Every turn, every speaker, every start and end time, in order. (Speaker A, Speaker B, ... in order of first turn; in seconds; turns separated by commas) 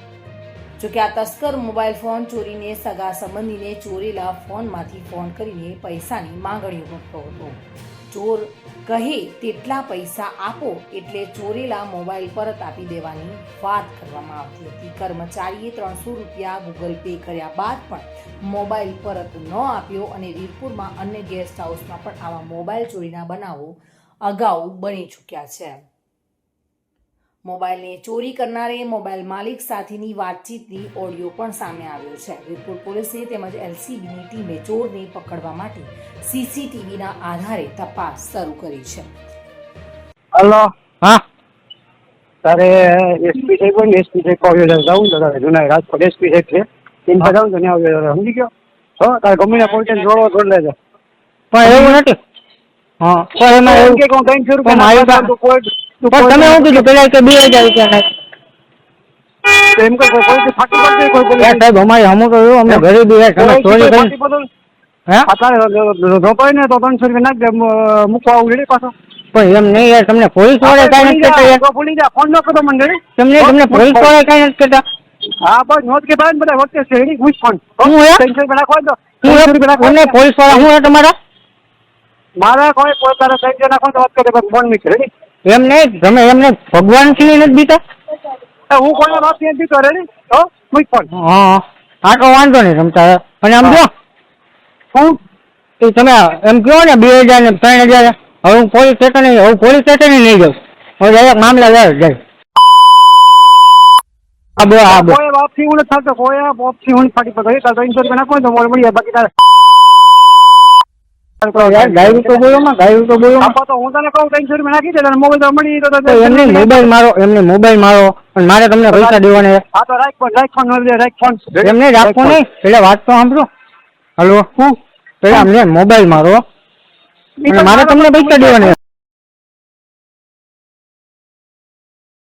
Speaker A: 0.8-25.8, Speaker A: 27.5-39.1, Speaker B: 40.4-40.7, Speaker B: 42.4-50.7, Speaker C: 51.5-52.2, Speaker C: 53.0-54.0, Speaker B: 53.6-56.9, Speaker C: 54.6-55.3, Speaker C: 56.1-58.0, Speaker B: 59.8-61.6, Speaker C: 61.4-64.1, Speaker B: 63.4-64.5, Speaker B: 65.3-68.9, Speaker C: 69.3-71.6, Speaker B: 70.6-74.1, Speaker C: 73.2-74.8, Speaker B: 75.4-80.7, Speaker C: 77.8-78.2, Speaker C: 79.2-81.1, Speaker B: 82.4-85.1, Speaker C: 85.5-87.8, Speaker B: 88.7-91.1, Speaker C: 91.1-93.9, Speaker C: 95.8-102.2, Speaker C: 104.6-105.2, Speaker B: 104.9-109.3, Speaker B: 111.4-112.4, Speaker C: 111.5-113.5, Speaker B: 113.4-116.9, Speaker C: 116.1-119.6, Speaker B: 118.9-122.4, Speaker C: 121.6-123.5, Speaker C: 124.2-126.4, Speaker B: 127.4-128.8, Speaker C: 127.5-128.8